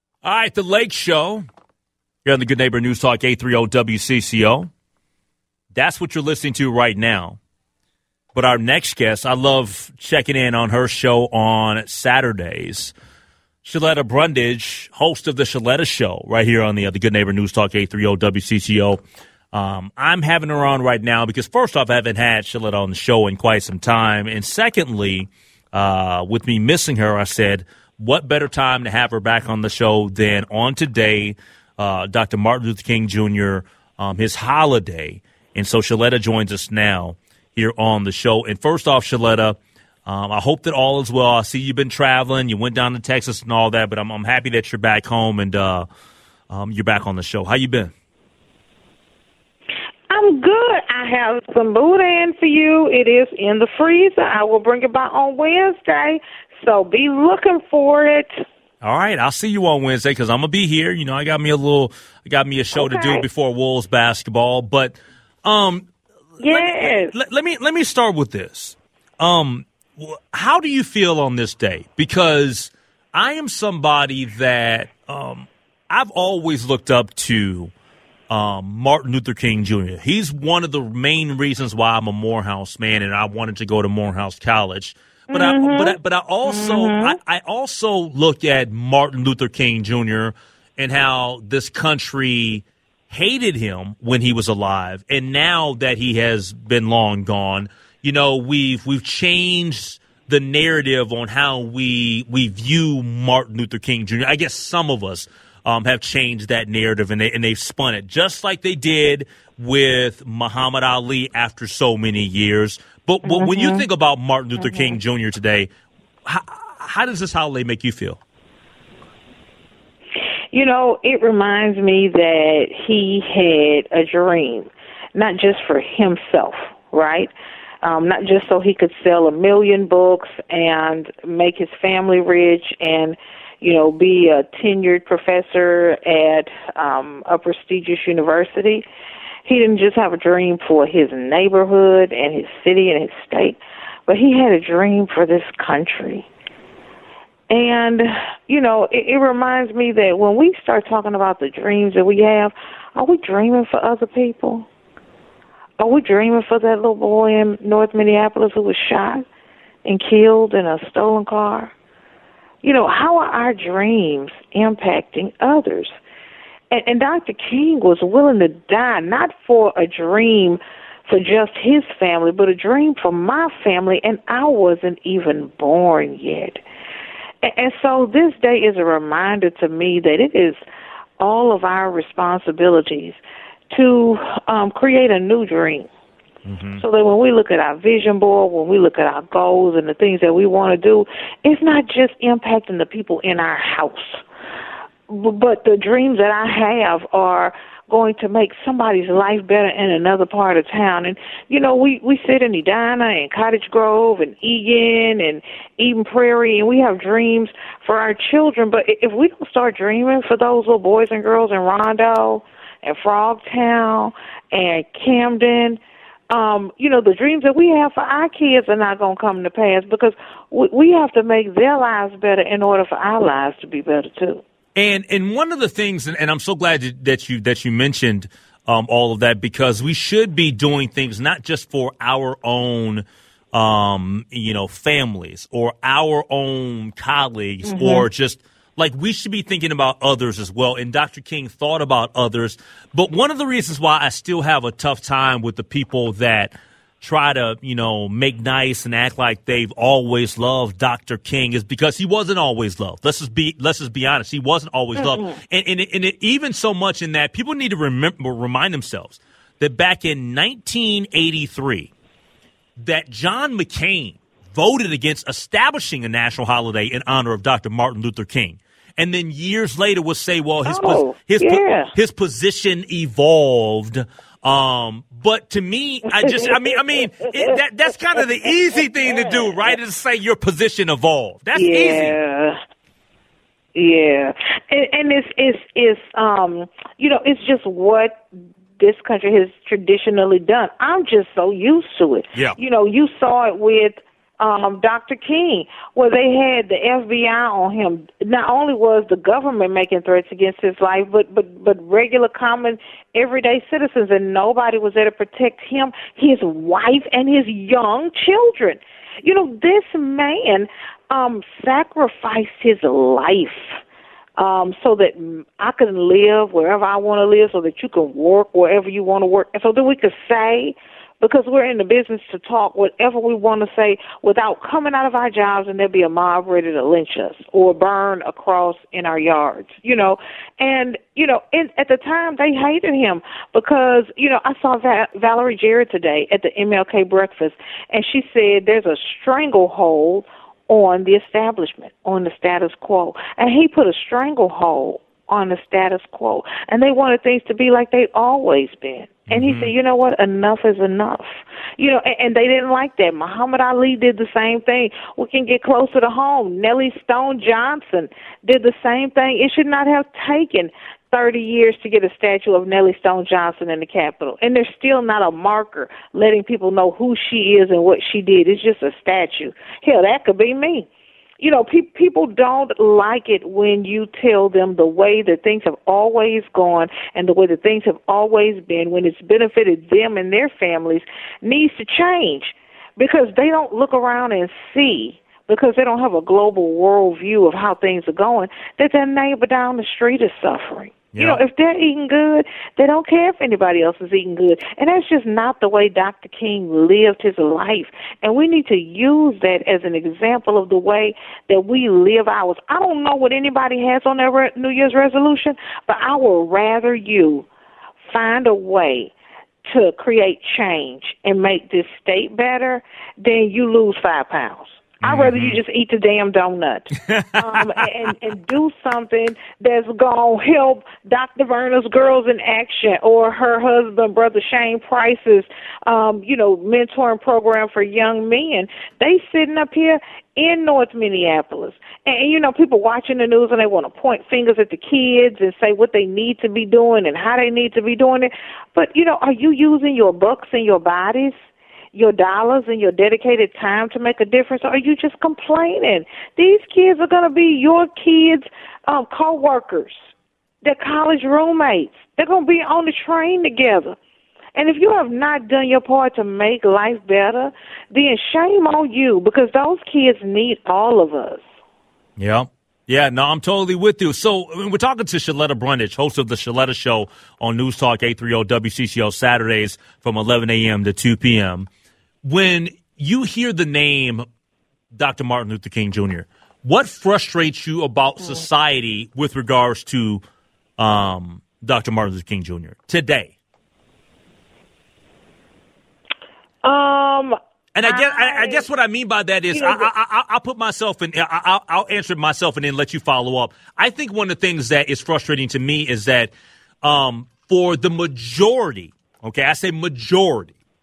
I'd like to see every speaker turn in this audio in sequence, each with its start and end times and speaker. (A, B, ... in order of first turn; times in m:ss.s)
0:00.2-0:01.4 A
0:02.2-0:04.7 A
0:05.7-0:07.4 A
0:08.3-0:12.9 A
0:13.6-0:19.0 A
0:19.5-0:45.9 A
0:46.5-0:47.9 A
0:50.1-0:58.3 B
0:58.8-1:05.9 A
1:02.7-1:03.2 B
1:06.4-1:07.1 B
1:06.4-1:17.7 A
1:18.3-1:55.7 A
1:25.3-1:27.2 B
1:53.2-1:53.9 B
1:54.6-1:55.0 B
1:56.2-1:58.2 A
2:00.5-2:07.3 B
2:07.8-2:18.8 B
2:19.4-2:26.2 B
2:27.5-2:34.7 B
2:35.8-2:39.2 B
2:39.8-2:41.7 B
2:42.6-2:45.9 B
2:46.7-2:56.6 B
2:57.4-3:00.6 B
3:01.2-3:03.2 B
3:03.7-3:05.9 B
3:06.4-3:06.8 A
3:06.8-3:14.2 B
3:15.1-3:44.4 B
3:44.7-4:21.9 A
3:57.6-3:58.1 B
4:15.0-4:15.4 B
4:22.8-4:42.2 A
4:30.6-4:31.9 B
4:36.1-4:37.6 B
4:39.0-4:39.7 B
4:41.5-4:42.6 B
4:43.7-5:13.8 B
5:14.4-6:10.9 B
5:49.3-5:49.7 A
6:11.4-6:47.5 B
6:31.1-6:31.4 A
6:48.0-6:49.1 B
6:49.6-7:21.3 B
6:55.0-6:55.6 A
6:57.0-6:57.7 A
7:21.9-7:30.0 B
7:30.6-7:34.0 B
7:34.5-7:41.4 B
7:42.2-7:51.7 A
7:52.2-7:54.2 A
7:54.9-8:00.2 A
8:00.8-8:03.3 A
8:06.6-8:08.7 B
8:07.7-8:20.5 A
8:09.5-8:09.9 B